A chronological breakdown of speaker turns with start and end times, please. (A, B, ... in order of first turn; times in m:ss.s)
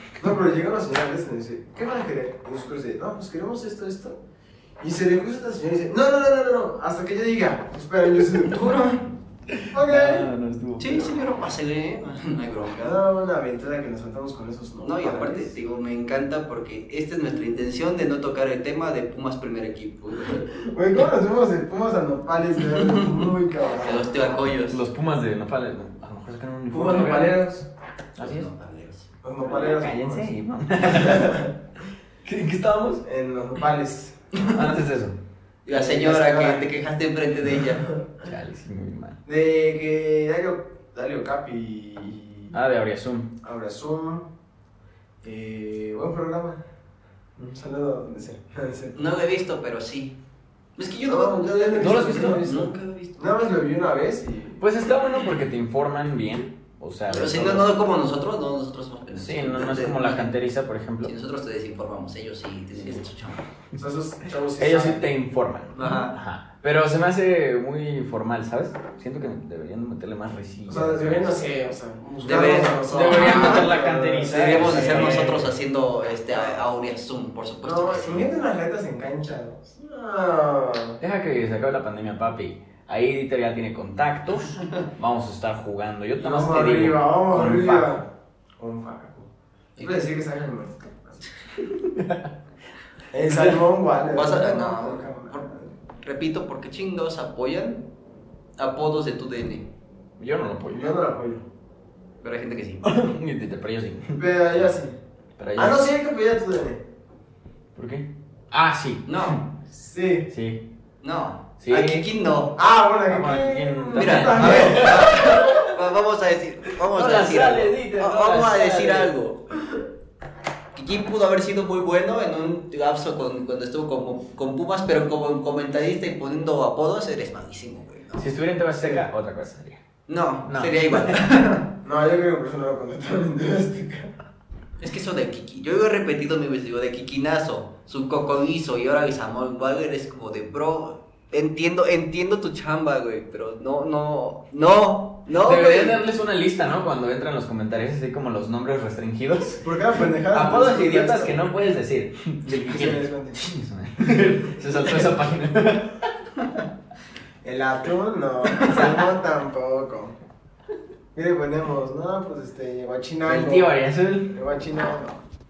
0:00.2-0:04.2 A
0:04.8-0:09.0 A
0:08.6-0:09.0 B
0:09.5-0:11.4 C
0:09.7-0:10.3 A
0:10.8-0:13.0 B
0:12.8-0:15.6 A
0:14.8-0:20.5 B
0:20.3-0:24.4 A
0:22.8-0:23.1 B
0:23.8-0:24.8 B
0:24.7-0:27.4 C
0:26.7-0:27.7 A
0:28.2-0:28.5 C
0:28.2-0:29.1 B
0:29.2-0:31.5 A
0:29.4-0:31.5 C
0:32.2-0:33.0 C
0:33.0-0:34.3 A
0:34.4-0:34.7 B
0:34.4-0:35.2 C
0:35.7-0:37.9 B
0:35.7-0:36.7 A
0:38.2-0:39.2 C
0:39.3-0:42.6 A
0:42.5-0:43.3 C
0:43.4-0:44.3 A
0:45.2-0:46.6 A
0:47.4-0:49.0 A
0:49.0-0:50.2 B
0:50.8-0:53.3 B
0:51.1-0:54.6 A
0:51.8-0:52.5 C
0:54.6-0:57.7 C
0:57.1-1:00.3 B
0:59.2-1:01.1 C
1:01.0-1:03.4 B
1:03.8-1:05.1 A
1:04.6-1:11.5 C
1:05.8-1:06.2 B
1:10.7-1:15.3 A
1:12.2-1:13.7 B
1:12.2-1:15.5 C
1:14.3-1:18.3 B
1:16.3-1:16.7 A
1:17.6-1:21.0 A
1:21.0-1:28.0 C
1:26.2-1:31.3 A
1:29.8-1:30.1 B
1:31.7-1:32.3 C
1:33.1-1:35.7 A
1:34.1-1:37.9 B
1:38.6-1:39.7 B
1:40.2-1:41.0 C
1:40.7-1:41.4 A
1:42.2-1:42.8 B
1:42.8-1:44.7 C
1:44.2-1:45.0 A
1:45.4-1:45.9 C
1:45.6-1:46.8 A
1:47.8-1:49.5 C
1:49.1-1:49.4 B
1:49.7-1:50.3 A
1:50.3-1:50.6 C
1:51.0-1:52.6 B
1:51.6-1:52.1 C
1:52.6-1:55.2 A
1:53.1-1:55.7 C
1:54.0-1:59.4 B
1:56.8-1:59.1 C
2:00.8-2:08.3 B
2:08.2-2:09.8 C
2:08.8-2:09.0 A
2:10.1-2:11.7 B
2:10.4-2:11.2 C
2:11.8-2:14.1 A
2:14.8-2:26.0 B
2:25.4-2:29.7 C
2:29.6-2:31.5 A
2:30.3-2:36.1 C
2:32.6-2:33.4 A
2:34.8-2:35.1 A
2:37.4-2:40.2 A
2:41.2-2:43.8 A
2:43.2-2:44.4 C
2:44.3-2:45.2 A